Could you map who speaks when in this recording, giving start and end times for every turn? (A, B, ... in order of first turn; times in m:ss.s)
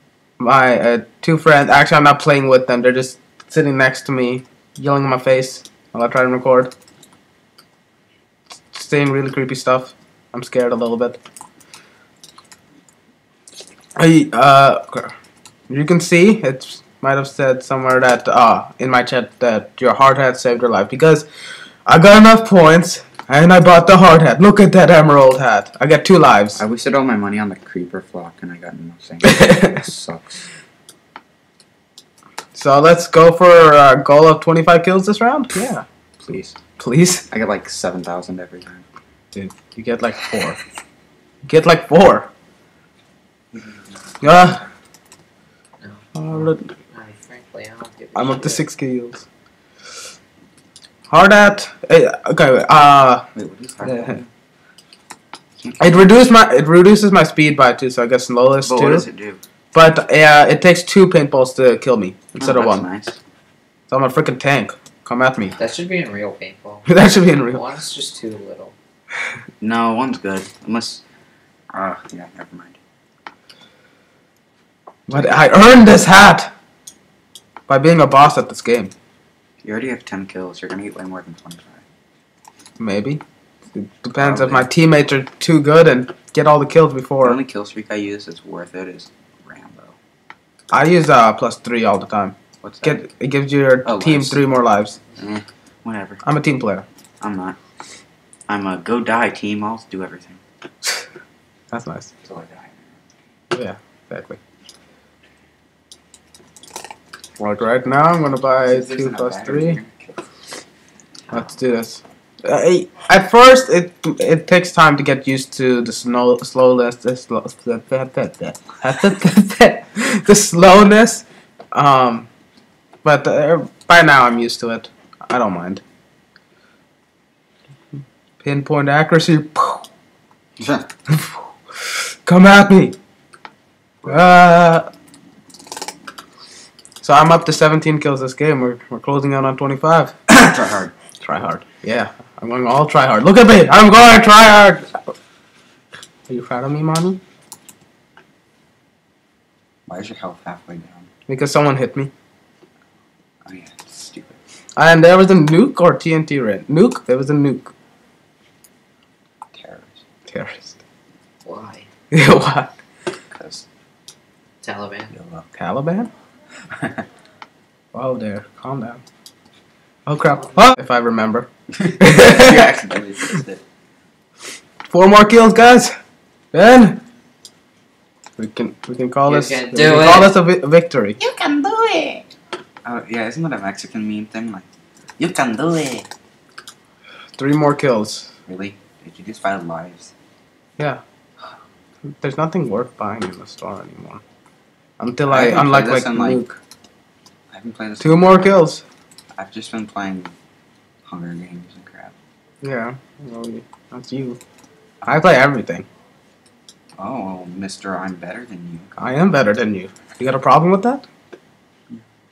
0:00.4-0:06.7 A
0:08.7-0:11.2 A
0:14.0-0:15.1 A
0:15.7-0:21.2 A
0:21.8-0:26.6 A
0:26.6-0:30.4 B
0:29.2-0:29.8 A
0:32.5-0:37.2 A
0:37.3-0:38.8 B
0:39.3-0:40.6 A
0:41.4-0:42.3 A
0:43.5-0:44.1 B
0:44.2-0:44.6 A
0:45.8-0:48.6 C
0:46.1-0:46.7 A
0:48.1-0:49.2 A
0:51.1-0:53.2 A
0:53.3-0:54.3 B
0:53.8-0:54.2 A
0:55.6-0:56.1 B
0:55.8-0:59.0 A
0:58.6-0:59.4 B
0:59.7-1:02.8 A
1:02.4-1:03.2 B
1:03.9-1:05.6 A
1:05.6-1:08.7 C
1:06.9-1:07.6 A
1:09.6-1:11.0 B
1:11.7-1:12.8 B
1:15.1-1:16.5 A
1:17.7-1:18.9 A
1:19.6-1:21.8 B
1:22.8-1:23.2 A
1:23.7-1:27.4 A
1:24.2-1:24.7 B
1:27.2-1:30.0 B
1:30.7-1:35.0 A
1:32.6-1:33.0 B
1:33.8-1:34.4 B
1:35.2-1:36.2 B
1:36.2-1:36.8 A
1:37.2-1:37.6 B
1:38.5-1:40.4 B
1:41.7-1:42.1 A
1:42.2-1:42.9 B
1:43.5-1:44.4 A
1:47.4-1:49.8 A
1:48.6-1:50.2 B
1:51.3-2:02.3 A
2:03.0-2:05.8 A
2:08.4-2:09.8 A
2:10.6-2:10.9 B
2:11.1-2:13.0 A
2:14.0-2:14.4 B
2:14.0-2:14.9 A
2:17.0-2:20.2 A
2:20.3-2:20.9 B
2:21.2-2:25.1 A
2:26.3-2:27.2 A
2:29.9-2:31.0 B
2:31.3-2:32.1 A
2:33.4-2:34.4 B
2:34.8-2:37.7 A
2:39.5-2:40.0 B
2:40.3-2:40.8 A
2:41.4-2:41.8 C
2:42.1-2:42.7 A
2:43.3-2:43.6 B
2:44.6-2:45.1 C
2:45.1-2:45.4 B
2:45.6-2:46.1 A
2:46.7-2:47.0 B
2:47.9-2:49.0 A
2:50.1-2:51.5 A
2:51.7-2:53.6 B
2:52.0-2:52.7 A
2:54.9-2:55.9 A
2:56.5-2:57.0 A
2:58.4-3:01.2 A
2:59.2-3:00.4 C
3:01.2-3:02.2 B
3:02.8-3:04.6 B
3:05.2-3:06.1 B
3:07.4-3:08.3 A
3:08.5-3:10.1 B
3:12.0-3:14.2 A
3:15.0-3:16.6 A
3:15.3-3:16.4 B
3:17.5-3:18.5 B
3:18.0-3:18.8 A
3:19.4-3:20.3 B
3:21.0-3:22.1 B
3:22.6-3:24.4 A
3:25.0-3:25.8 A
3:27.0-3:29.1 B
3:29.0-3:31.0 A